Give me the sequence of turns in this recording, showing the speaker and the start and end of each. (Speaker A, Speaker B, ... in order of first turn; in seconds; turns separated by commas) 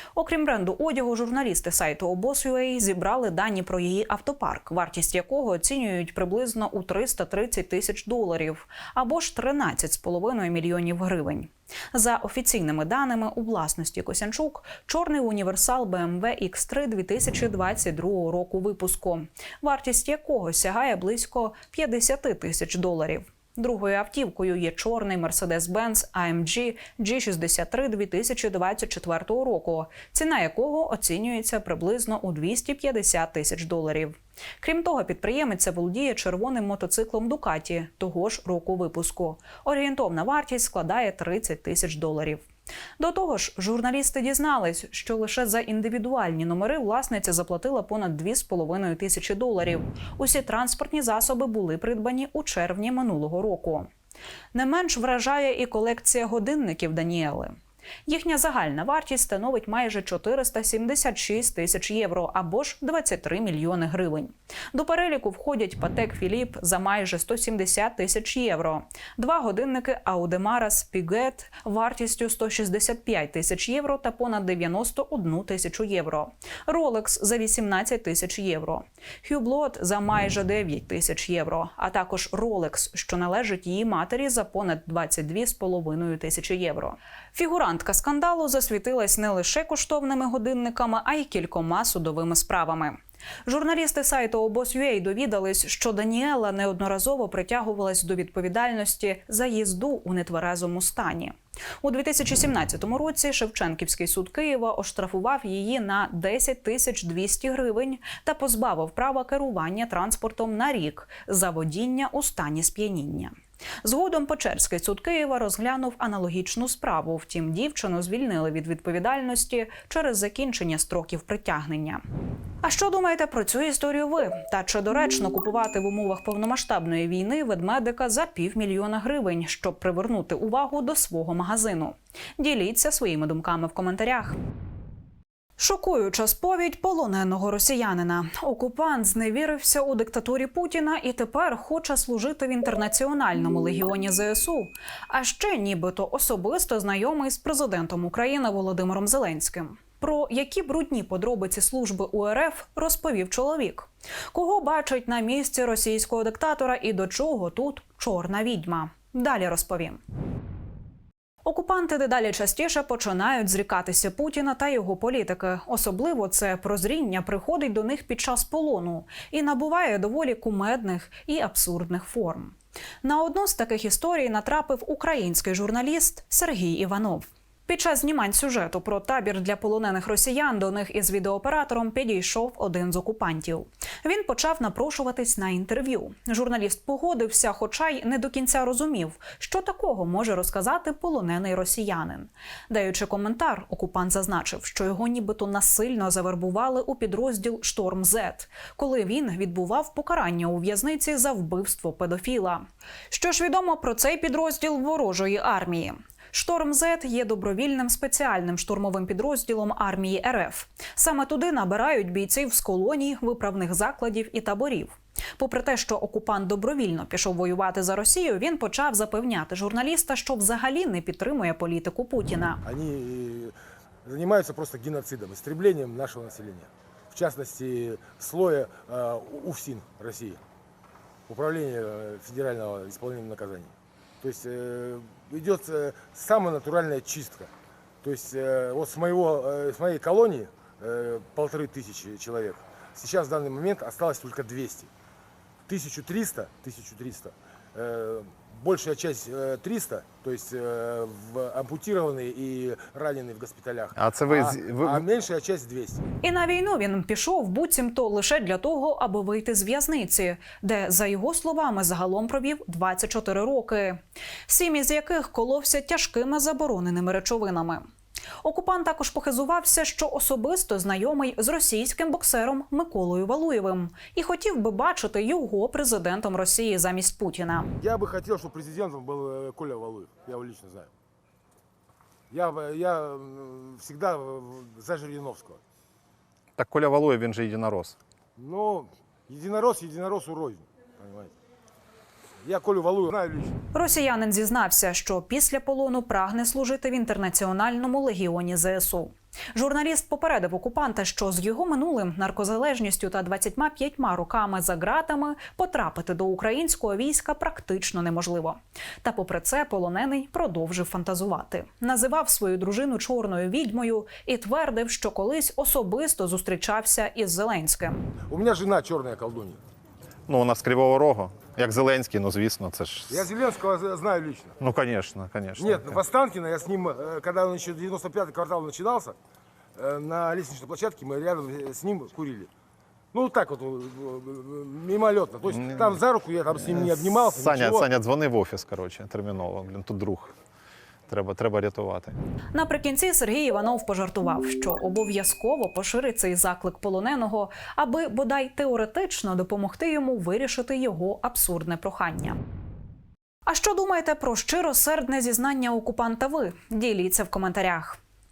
Speaker A: 0.1-42.5, Speaker A: 43.0-53.9, Speaker A: 54.5-57.5, Speaker A: 58.1-122.0, Speaker A: 122.6-134.4, Speaker A: 135.6-160.0, Speaker A: 161.4-222.6, Speaker B: 222.7-223.5, Speaker B: 224.1-230.4, Speaker B: 231.3-237.5, Speaker B: 238.0-244.9, Speaker B: 245.7-256.1, Speaker C: 253.9-255.1, Speaker A: 256.2-267.8, Speaker A: 268.4-277.7, Speaker B: 277.8-280.9, Speaker B: 282.3-285.6, Speaker C: 286.6-288.0, Speaker B: 288.4-291.3, Speaker B: 292.4-293.6, Speaker A: 293.7-318.1, Speaker B: 318.3-319.6, Speaker C: 320.3-323.3, Speaker B: 323.1-324.6, Speaker C: 324.6-326.0, Speaker B: 325.6-329.2, Speaker B: 329.8-332.5, Speaker B: 333.1-337.9, Speaker C: 335.5-336.0, Speaker C: 336.5-340.3, Speaker C: 341.1-342.2, Speaker A: 342.5-352.4, Speaker A: 353.5-358.0